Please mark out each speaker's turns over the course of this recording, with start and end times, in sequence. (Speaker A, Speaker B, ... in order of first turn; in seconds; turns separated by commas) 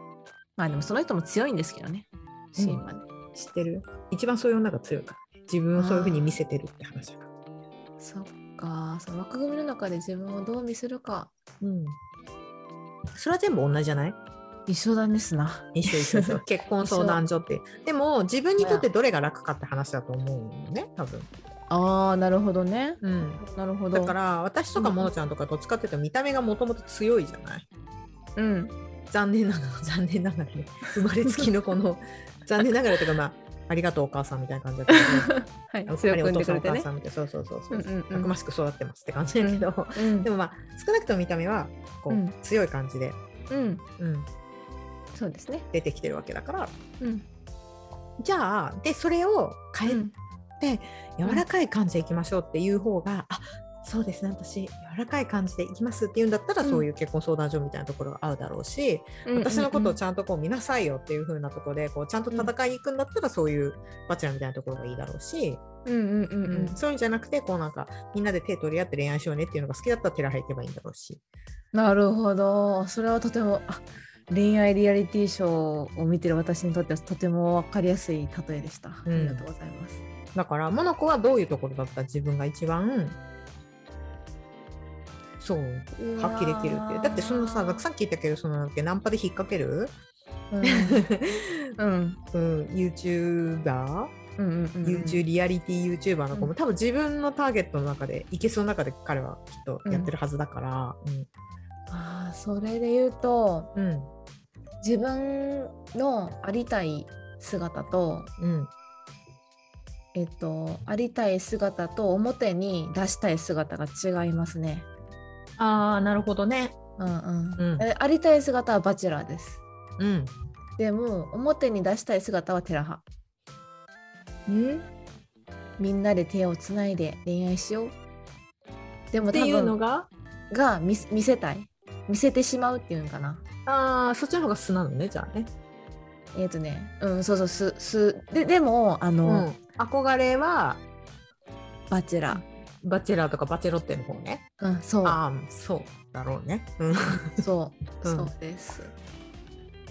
Speaker A: 0.6-3.0, Speaker B: 2.6-7.3, Speaker A: 5.8-6.4, Speaker A: 8.0-11.3, Speaker B: 11.6-12.0, Speaker B: 13.1-14.2, Speaker A: 14.7-17.2, Speaker B: 15.8-21.3, Speaker A: 18.6-18.9, Speaker A: 21.7-24.1, Speaker B: 23.0-23.4, Speaker B: 23.9-27.7, Speaker A: 24.8-25.1, Speaker A: 28.4-28.7, Speaker B: 29.1-35.3, Speaker A: 34.9-36.9, Speaker B: 35.9-43.2, Speaker A: 37.7-38.3, Speaker A: 39.4-40.3, Speaker A: 42.1-42.4, Speaker A: 43.5-43.9, Speaker B: 44.0-44.3, Speaker A: 45.1-45.7, Speaker B: 45.7-46.7, Speaker A: 47.0-47.3, Speaker B: 48.2-50.0, Speaker A: 49.9-50.1, Speaker B: 50.6-65.6, Speaker A: 59.3-60.0, Speaker A: 65.9-66.8, Speaker B: 66.5-71.2, Speaker A: 71.7-80.0, Speaker B: 79.1-79.5, Speaker B: 80.3-83.2, Speaker B: 85.4-89.9, Speaker A: 86.1-87.8, Speaker A: 90.5-91.1, Speaker B: 90.6-91.7, Speaker A: 91.8-92.2, Speaker B: 92.3-94.1, Speaker A: 94.4-95.2, Speaker B: 94.8-101.3, Speaker A: 99.9-100.1, Speaker A: 101.9-103.7, Speaker B: 103.8-104.1, Speaker A: 104.8-108.3, Speaker B: 108.4-108.7, Speaker A: 110.2-114.9, Speaker B: 115.6-116.8, Speaker A: 117.0-119.6, Speaker B: 117.6-117.8, Speaker B: 120.0-120.3, Speaker A: 120.8-123.0, Speaker A: 124.5-124.8, Speaker A: 125.8-128.0, Speaker A: 129.1-129.8, Speaker B: 129.3-130.1, Speaker A: 130.5-133.4, Speaker B: 133.7-135.5, Speaker A: 136.3-139.5, Speaker B: 139.2-140.8, Speaker A: 141.9-142.4, Speaker B: 142.3-144.4, Speaker A: 144.6-145.2, Speaker B: 145.0-147.4, Speaker A: 147.3-148.9, Speaker B: 148.0-148.3